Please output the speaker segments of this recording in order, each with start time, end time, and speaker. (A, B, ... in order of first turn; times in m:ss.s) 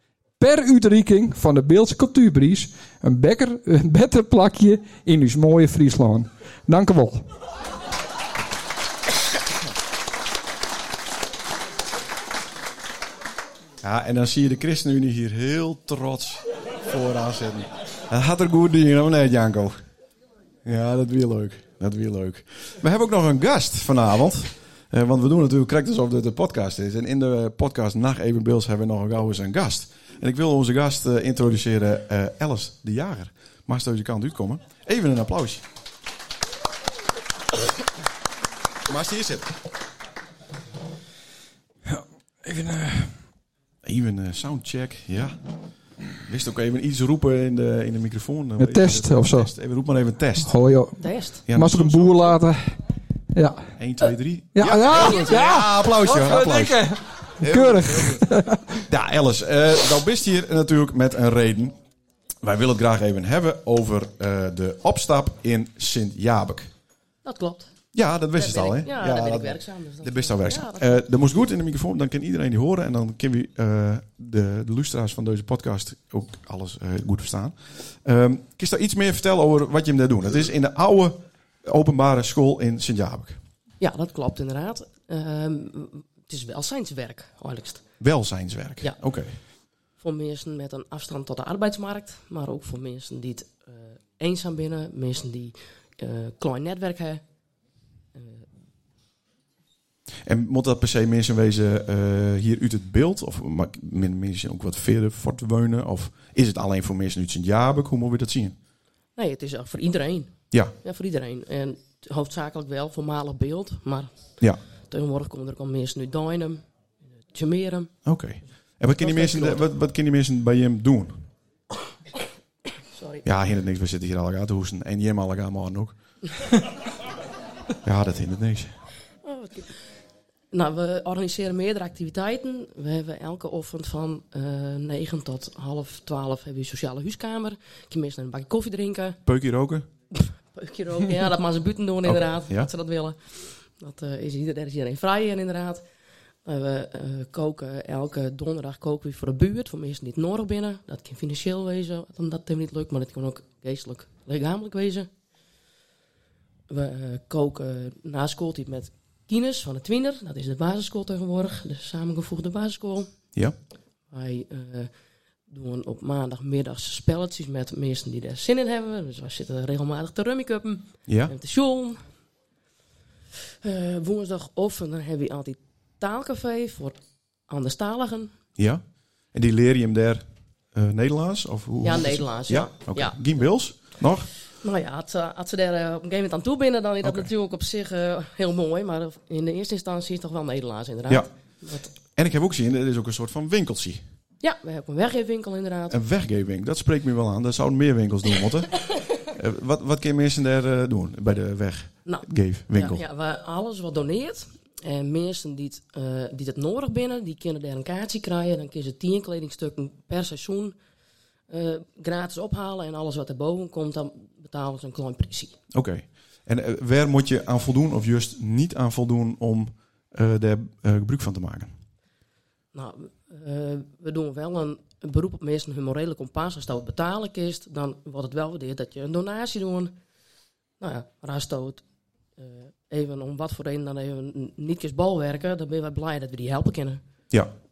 0:00.4-0:07.2 A
0:13.8-0:19.8 B
0:20.6-0:35.6 B
0:38.8-0:39.5 B
0:41.8-0:43.2 A
0:43.8-0:45.4 B
0:46.1-0:50.8 B
0:48.6-0:49.5 A
0:50.4-0:52.8 A
0:51.0-0:51.4 C
0:51.4-0:52.3 B
0:53.3-0:53.7 A
0:53.8-0:58.2 B
0:54.5-0:58.8 A
0:55.0-0:55.4 C
0:58.9-1:01.8 B
1:02.4-1:06.7 B
1:07.2-1:07.7 C
1:07.9-1:23.4 B
1:08.3-1:11.0 C
1:23.8-1:27.8 C
1:28.0-1:29.4 B
1:30.0-1:37.2 C
1:38.1-1:38.4 C
1:40.2-1:48.6 B
1:49.2-1:56.6 C
1:57.2-1:57.9 C
1:58.0-2:01.3 B
1:59.0-1:59.6 C
2:02.9-2:03.2 C
2:03.2-2:05.9 B
2:07.8-2:08.8 B
2:09.2-2:09.8 C
2:10.5-2:19.2 C
2:19.2-2:19.9 B
2:20.1-2:25.8 C
2:22.0-2:22.7 B
2:26.4-2:35.1 C
2:36.7-2:43.1 C
2:44.1-2:44.9 C
2:45.5-2:52.0 C
2:51.0-2:51.3 B
2:53.6-2:58.3 C
2:58.6-3:04.3 B
3:01.8-3:03.2 C
3:04.6-3:11.9 C
3:07.0-3:07.3 B
3:11.9-3:14.0 B
3:14.4-3:16.0 C
3:15.9-3:18.7 B
3:19.3-3:23.0 B
3:22.0-3:30.8 C
3:31.5-3:35.6 C
3:35.7-3:41.7 B
3:42.7-3:50.0 C
3:50.8-3:51.8 C
3:52.4-3:57.0 C